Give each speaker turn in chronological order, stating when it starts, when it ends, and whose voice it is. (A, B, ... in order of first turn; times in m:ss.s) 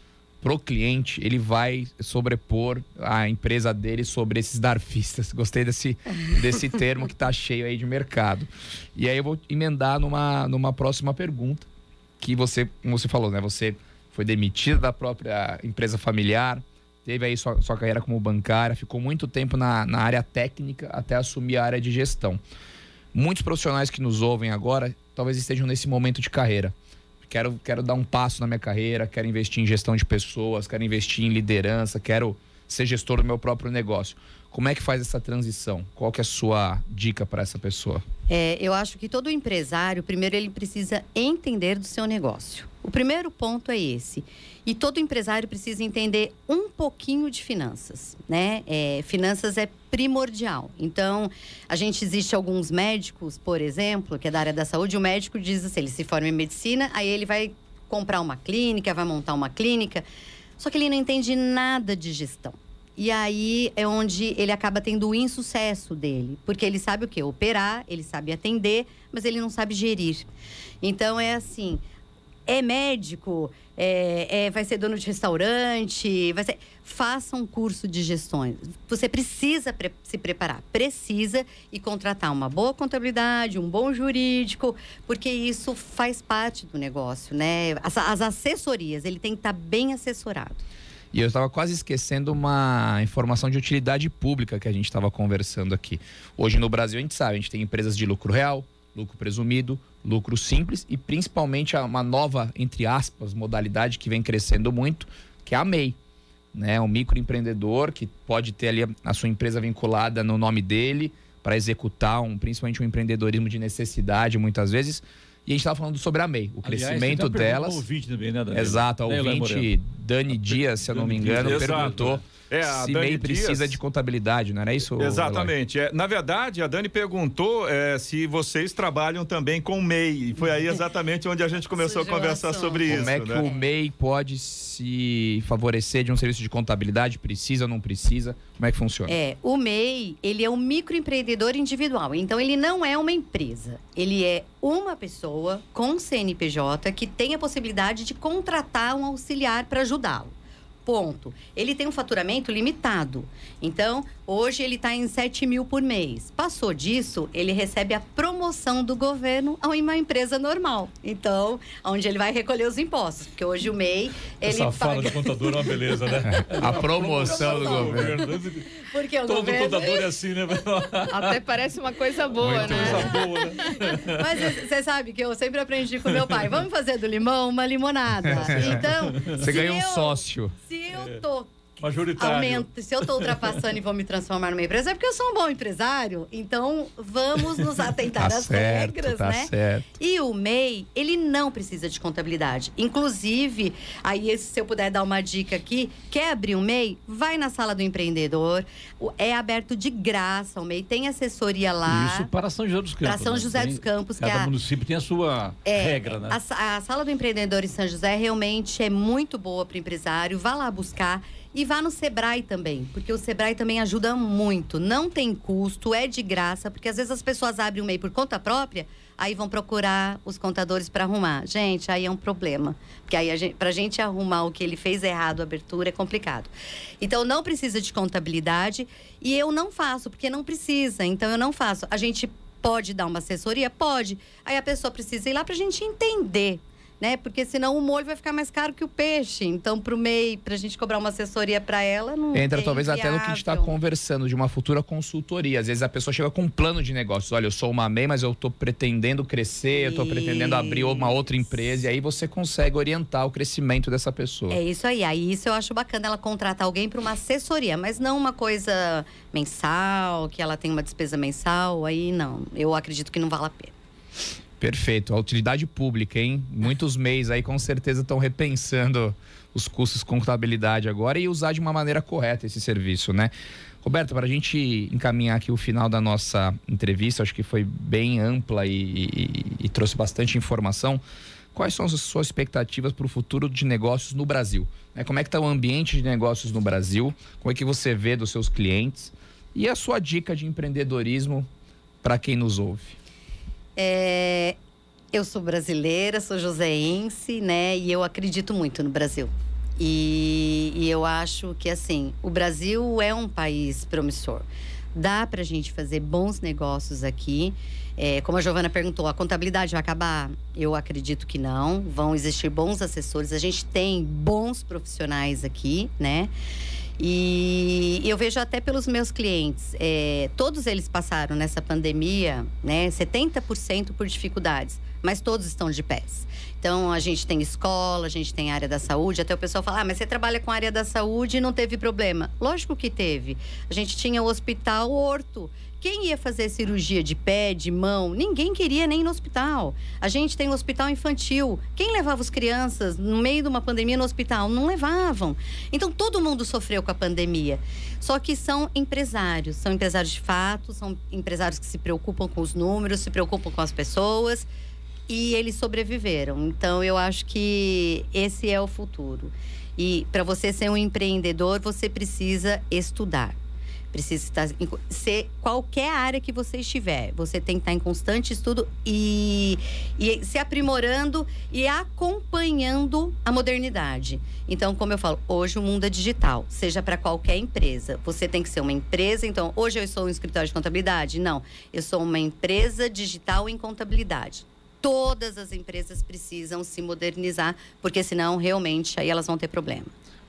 0:00.4-0:11.7 A
0:12.2-0:22.4 A
0:23.1-0:26.7 A
0:27.2-0:38.0 A
0:38.3-1:00.0 B
1:00.6-1:10.3 B
1:10.8-1:11.8 B
1:12.5-1:30.6 B
1:31.1-1:46.0 A
1:46.5-1:57.8 A
1:56.6-1:59.7 C
1:58.5-2:05.5 A
2:00.3-2:02.2 C
2:01.4-2:03.8 D
2:05.0-2:13.4 D
2:11.7-2:13.6 B
2:12.8-2:19.2 A
2:19.1-2:30.3 B
2:30.8-2:45.7 B
2:44.4-2:51.4 C
2:46.4-2:48.1 A
2:47.2-2:48.1 B
2:48.8-2:50.1 B
2:51.2-2:53.6 E
2:52.4-2:53.1 A
2:52.6-2:54.2 C
2:52.7-2:53.2 B
2:54.0-3:01.6 B
2:58.2-3:00.5 A
2:58.5-2:58.8 C
3:01.8-3:03.6 C
3:02.2-3:22.3 B
3:08.2-3:09.9 A
3:21.8-3:26.4 C
3:23.0-3:24.5 B
3:25.6-4:03.7 B
4:02.3-4:14.6 A
4:09.7-4:11.8 B
4:14.5-4:23.7 B
4:24.6-4:33.3 A
4:33.8-4:41.0 A
4:41.5-4:51.5 A
4:52.0-4:53.0 A
4:53.8-4:54.6 B
4:55.1-5:16.3 B
5:17.0-5:54.5 B
5:55.1-6:03.4 B
6:03.9-6:29.9 B